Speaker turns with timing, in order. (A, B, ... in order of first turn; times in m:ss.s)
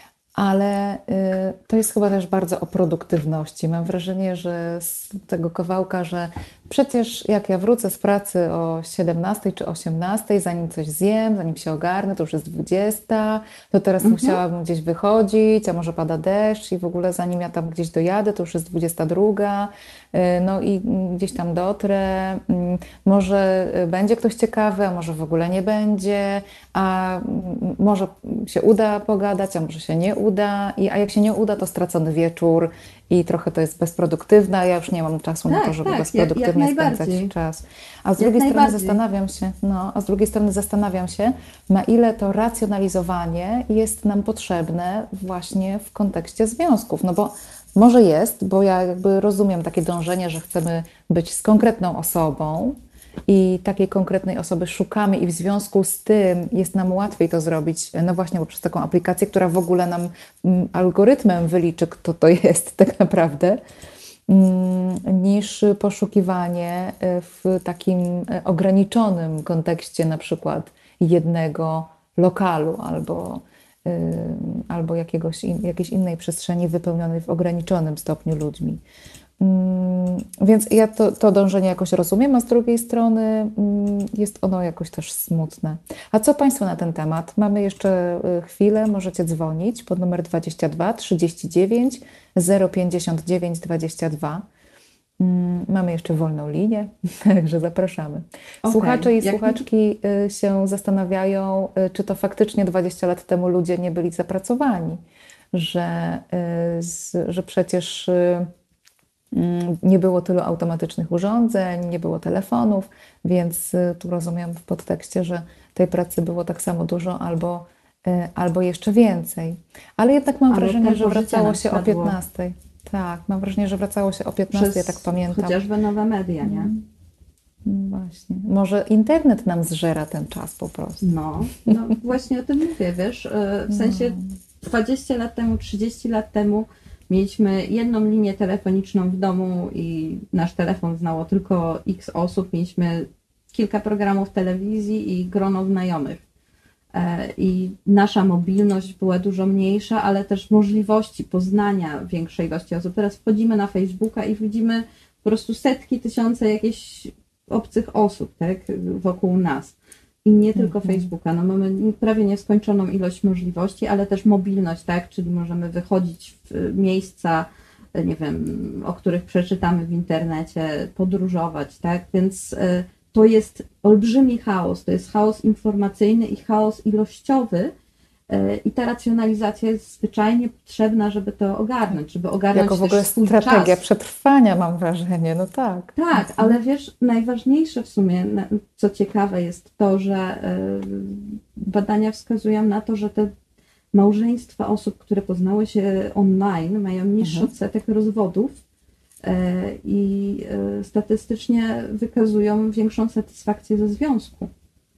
0:00.3-0:52.8 A
0:14.0-0:14.4 B
0:35.4-0:37.3 B
0:38.2-0:39.0 B
0:53.3-1:03.6 A
1:04.3-1:18.8 A
1:19.4-1:34.4 A
1:35.2-1:45.0 A
1:38.6-1:39.6 B
1:45.5-1:48.5 A
1:49.3-2:05.6 A
2:00.5-2:02.2 B
2:04.5-2:06.7 B
2:06.4-2:06.8 A
2:07.6-2:11.0 A
2:11.0-2:26.2 B
2:13.7-2:14.2 A
2:26.9-2:57.7 B
2:40.6-2:41.1 A
2:58.3-3:03.8 B
3:02.5-3:06.6 A
3:05.9-3:13.3 B
3:13.9-3:18.6 B
3:17.2-3:17.5 A
3:19.2-3:24.5 B